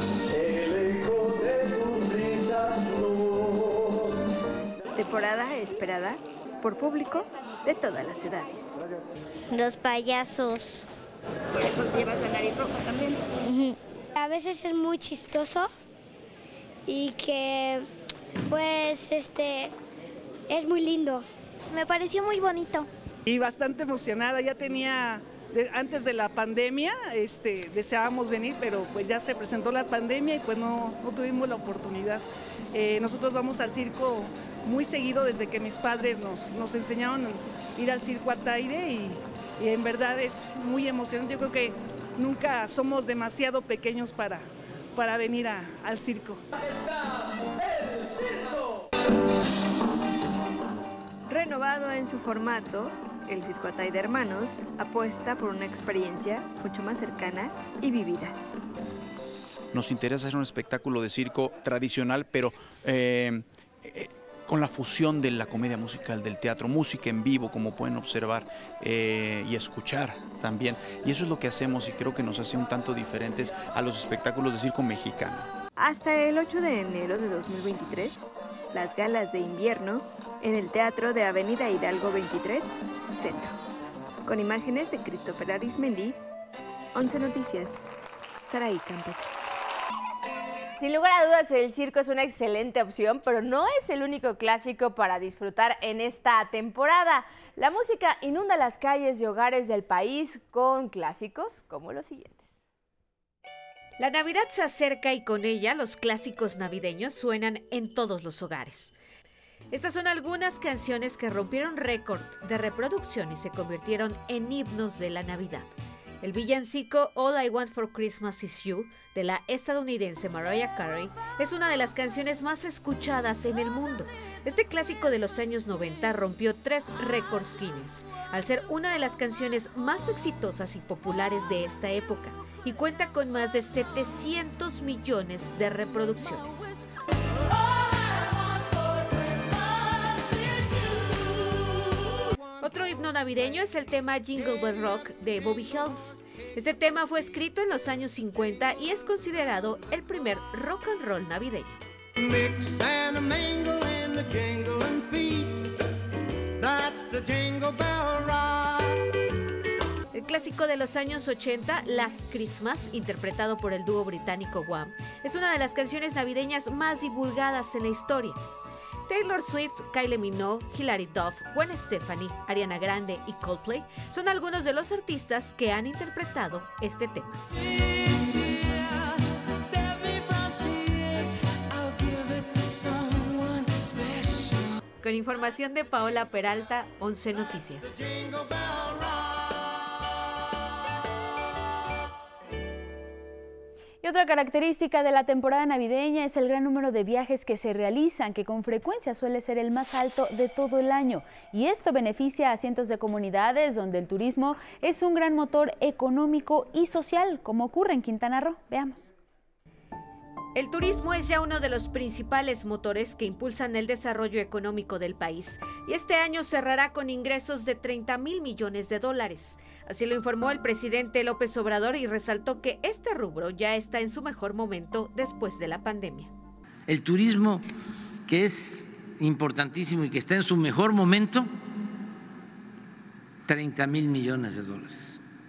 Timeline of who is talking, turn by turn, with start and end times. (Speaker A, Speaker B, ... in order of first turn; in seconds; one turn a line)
Speaker A: 4.9-8.8
Speaker B: 9.5-10.8
Speaker B: 11.9-12.3
Speaker B: 13.3-15.7
Speaker B: 16.9-17.8
Speaker B: 18.5-19.7
Speaker B: 20.5-22.9
Speaker C: 23.2-46.4
Speaker A: 51.3-58.4
Speaker D: 59.7-75.5
Speaker A: 75.8-83.6
Speaker A: 84.2-86.2
Speaker A: 86.9-87.9
Speaker A: 88.4-89.3
Speaker E: 90.8-102.5
Speaker F: 104.0-109.0
Speaker F: 109.7-136.8
Speaker F: 142.6-151.8
Speaker G: 152.2-155.7
Speaker G: 156.6-159.0
Speaker F: 160.1-168.4
Speaker F: 169.1-177.4
Speaker F: 185.0-188.0
Speaker G: 187.9-189.5
Speaker H: 194.0-209.1
Speaker F: 210.5-226.3
Speaker I: 226.9-227.6
Speaker I: 228.2-231.5
Speaker I: 233.5-235.2